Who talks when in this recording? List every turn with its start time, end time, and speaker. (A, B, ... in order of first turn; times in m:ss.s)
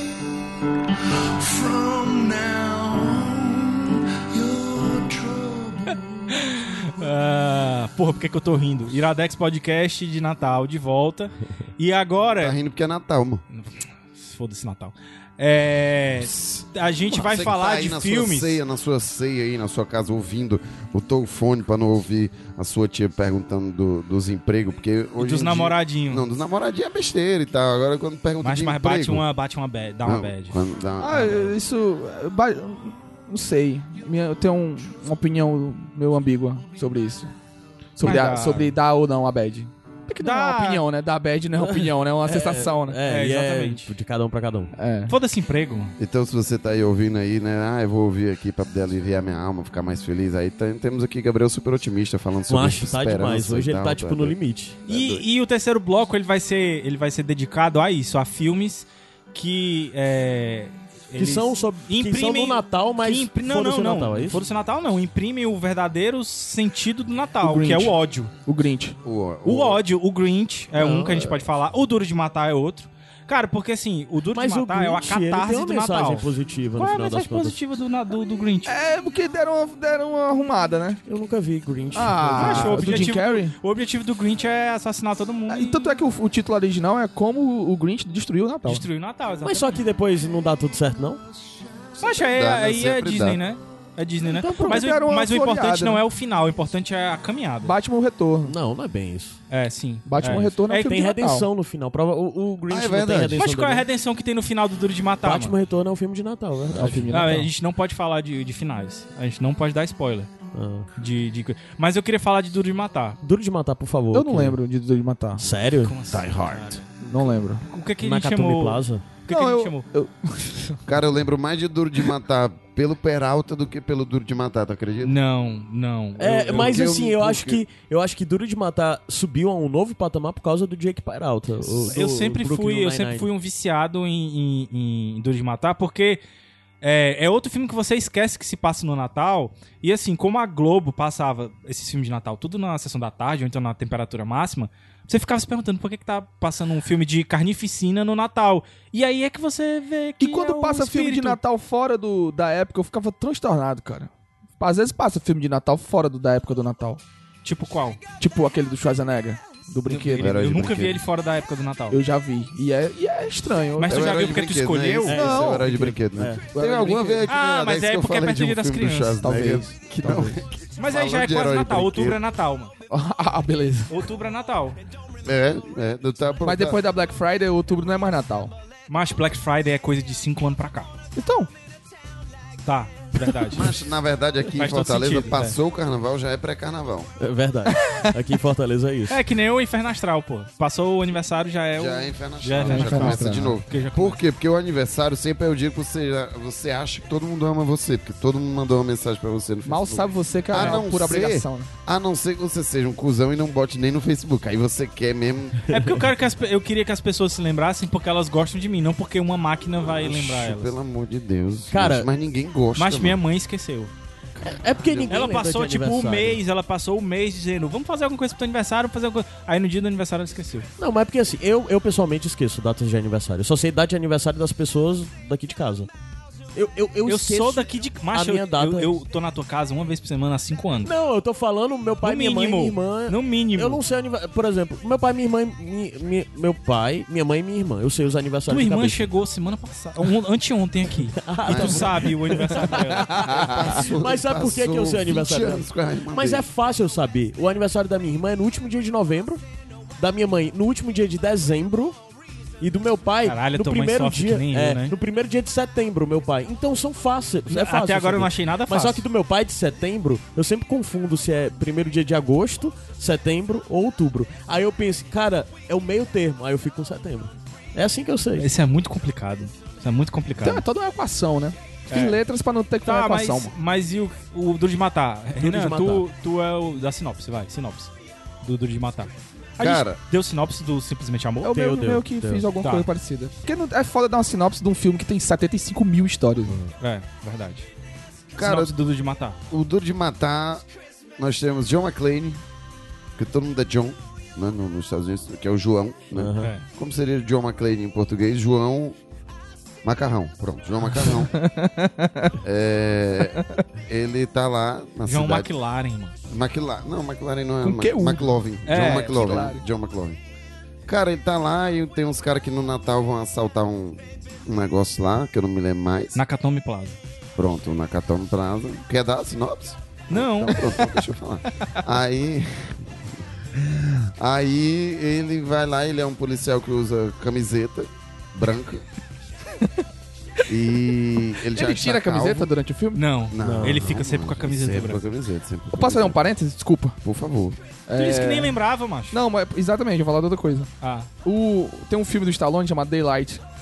0:01.4-0:06.1 A
0:06.3-0:12.6 B
0:12.4-0:13.4 C
0:13.5-0:18.6 B
0:17.1-0:29.2 C
0:25.2-0:26.3 B
0:28.4-0:30.6 B
0:30.0-0:31.5 C
0:31.0-0:37.3 D
0:38.0-0:43.0 D
0:38.0-0:38.7 B
0:40.2-0:40.8 B
0:41.6-0:44.7 E
0:43.0-0:43.9 B
0:44.7-0:45.1 D
0:45.1-0:46.0 B
0:46.0-0:55.2 C
0:52.5-0:54.8 E
0:54.9-1:08.3 B
1:01.2-1:04.4 E
1:07.4-1:09.0 D
1:09.0-1:09.8 C
1:09.4-1:18.7 B
1:10.7-1:11.4 E
1:14.3-1:17.6 E
1:18.6-1:21.0 D
1:21.0-1:23.1 E
1:21.9-1:23.5 D
1:22.4-1:26.0 B
1:25.5-1:28.8 D
1:28.6-1:29.8 B
1:29.4-1:31.2 E
1:32.0-1:33.4 C
1:32.0-1:37.7 B
1:34.3-1:34.8 E
1:34.3-1:36.0 D
1:37.6-1:38.5 D
1:38.4-1:39.4 E
1:39.5-1:41.0 B
1:40.0-1:41.5 D
1:40.8-1:43.8 E
1:42.7-1:43.4 C
1:43.4-1:45.5 B
1:45.2-1:47.2 E
1:46.8-1:47.5 D
1:47.1-1:50.3 B
1:50.5-1:50.9 E
1:51.0-1:53.2 B
1:53.2-1:54.6 E
1:54.1-1:55.4 D
1:55.4-1:56.3 E
1:55.8-1:57.0 B
1:56.1-1:56.6 C
1:57.1-1:57.6 D
1:57.7-1:59.8 B
1:58.0-1:59.0 E
1:59.3-2:00.8 D
2:00.8-2:05.2 C
2:05.0-2:06.9 B
2:06.2-2:13.3 E
2:06.3-2:07.6 C
2:11.8-2:16.2 B
2:16.8-2:31.4 B
2:30.2-2:37.0 D
2:37.4-2:38.0 B
2:38.2-2:40.4 D
2:39.9-2:42.0 B
2:40.2-2:41.0 C
2:41.9-2:44.2 D
2:43.8-2:45.1 B
2:43.9-2:52.2 C
2:45.1-2:46.4 E
2:45.1-2:45.7 D
2:46.5-2:47.3 D
2:47.3-2:49.2 B
2:49.2-2:50.4 D
2:50.8-2:52.7 B
2:52.9-2:53.9 D
2:53.9-2:54.8 B
2:55.2-2:56.8 C
2:56.4-2:58.5 D
2:58.9-3:00.9 B
3:01.2-3:01.5 D
3:02.6-3:03.8 B
3:03.5-3:07.1 C
3:04.5-3:05.6 B
3:07.2-3:09.2 E
3:07.7-3:08.1 D
3:09.1-3:14.2 B
3:11.8-3:25.6 C
3:12.6-3:13.5 D
3:19.6-3:21.7 D
3:20.5-3:20.8 B
3:25.7-3:30.7 B
3:29.8-3:33.2 C
3:31.7-3:32.1 E
3:32.8-3:33.9 B
3:34.4-3:36.4 E
3:34.7-3:35.2 C
3:35.1-3:40.7 B
3:40.8-3:45.9 E
3:46.5-3:48.9 E
3:47.0-3:50.9 B
3:50.8-3:59.1 E
3:52.0-3:53.8 B
3:58.5-4:03.5 B
4:01.1-4:09.4 E
4:01.4-4:02.1 C
4:03.0-4:03.6 D
4:03.1-4:06.5 C
4:10.0-4:12.0 E
4:12.6-4:28.5 E
4:13.2-4:14.9 B
4:17.5-4:19.0 B
4:28.4-4:30.6 B
4:30.4-4:33.5 D
4:31.9-4:32.2 B
4:32.8-4:37.9 B
4:35.4-4:36.0 E
4:38.4-4:41.5 B
4:39.6-4:40.0 C
4:41.4-4:46.6 D
4:41.5-4:42.4 E
4:42.6-4:42.9 B
4:46.8-4:47.7 B
4:48.3-4:48.7 C
4:48.4-4:49.4 B
4:49.5-4:50.6 C
4:51.2-4:52.4 C
4:53.2-4:59.0 C
4:56.1-4:56.5 E
4:59.8-5:01.3 C
5:01.0-5:02.3 D
5:02.4-5:05.5 C
5:05.0-5:06.1 B
5:06.3-5:10.2 C
5:07.6-5:09.6 D
5:08.6-5:09.5 B
5:10.8-5:16.2 C
5:16.1-5:17.0 B
5:17.4-5:22.8 C
5:20.1-5:20.7 B
5:23.5-5:28.8 C
5:30.5-5:32.5 C
5:31.5-5:33.0 D
5:32.9-5:35.0 B
5:33.3-5:36.2 C
5:33.4-5:33.9 E
5:35.7-5:37.0 D
5:37.0-5:37.6 C
5:37.9-5:38.6 D
5:38.0-5:39.2 B
5:39.1-5:40.7 D
5:40.8-5:41.1 B
5:41.2-5:43.4 D